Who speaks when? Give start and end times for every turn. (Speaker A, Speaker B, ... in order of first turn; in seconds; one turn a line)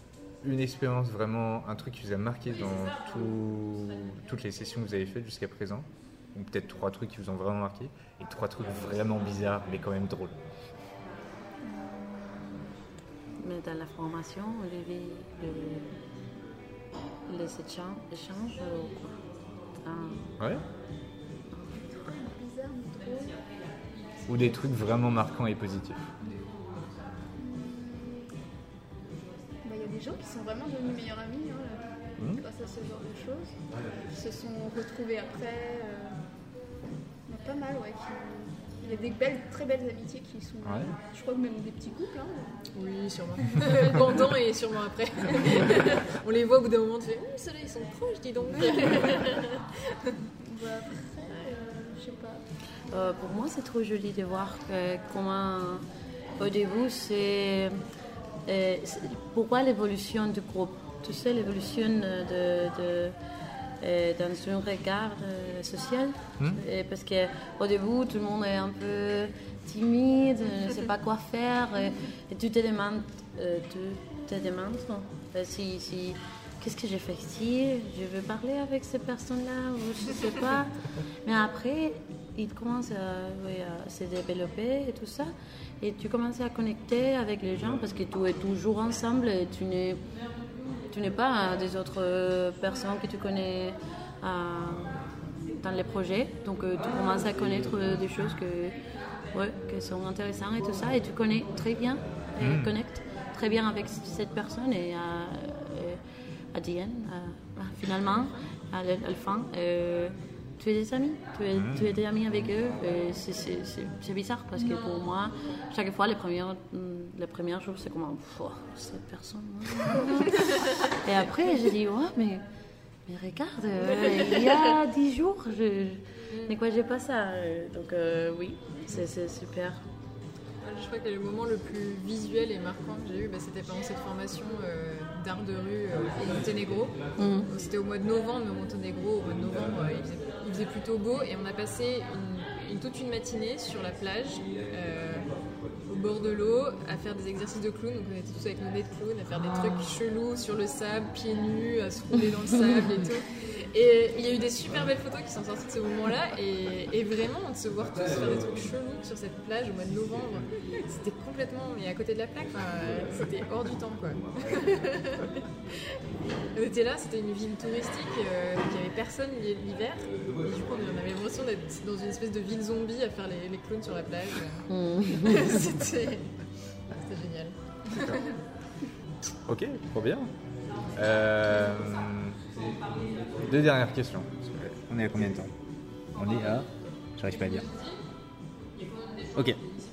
Speaker A: 0.4-10.4
Speaker B: 11.7-12.5
Speaker C: 13.4-15.9
Speaker C: 17.3-19.2
Speaker C: 19.8-20.3
Speaker C: 21.5-21.9
Speaker B: 21.8-23.4
Speaker A: 24.3-26.1
Speaker B: 27.4-28.3
Speaker B: 29.6-33.6
Speaker B: 34.1-36.2
Speaker B: 37.3-42.6
Speaker A: 40.6-40.9
Speaker D: 42.7-49.6
Speaker B: 43.6-43.9
Speaker B: 50.4-52.4
Speaker C: 52.9-55.9
Speaker C: 56.4-57.7
Speaker C: 58.5-63.2
Speaker C: 63.8-85.3
Speaker C: 85.8-90.0
Speaker C: 90.9-95.0
Speaker C: 95.6-98.8
Speaker C: 99.3-106.0
Speaker A: 102.4-102.7
Speaker C: 106.5-122.4
Speaker A: 111.5-112.0
Speaker C: 123.1-129.8
Speaker D: 126.3-126.6
Speaker D: 130.6-145.3
Speaker C: 137.2-137.5
Speaker D: 145.9-165.4
Speaker D: 166.5-176.3
Speaker C: 174.7-175.4
Speaker D: 176.9-178.4
Speaker A: 177.9-178.2
Speaker A: 179.5-180.3
Speaker A: 180.9-182.4
Speaker A: 183.4-185.5
Speaker A: 186.1-187.7
Speaker D: 187.4-187.9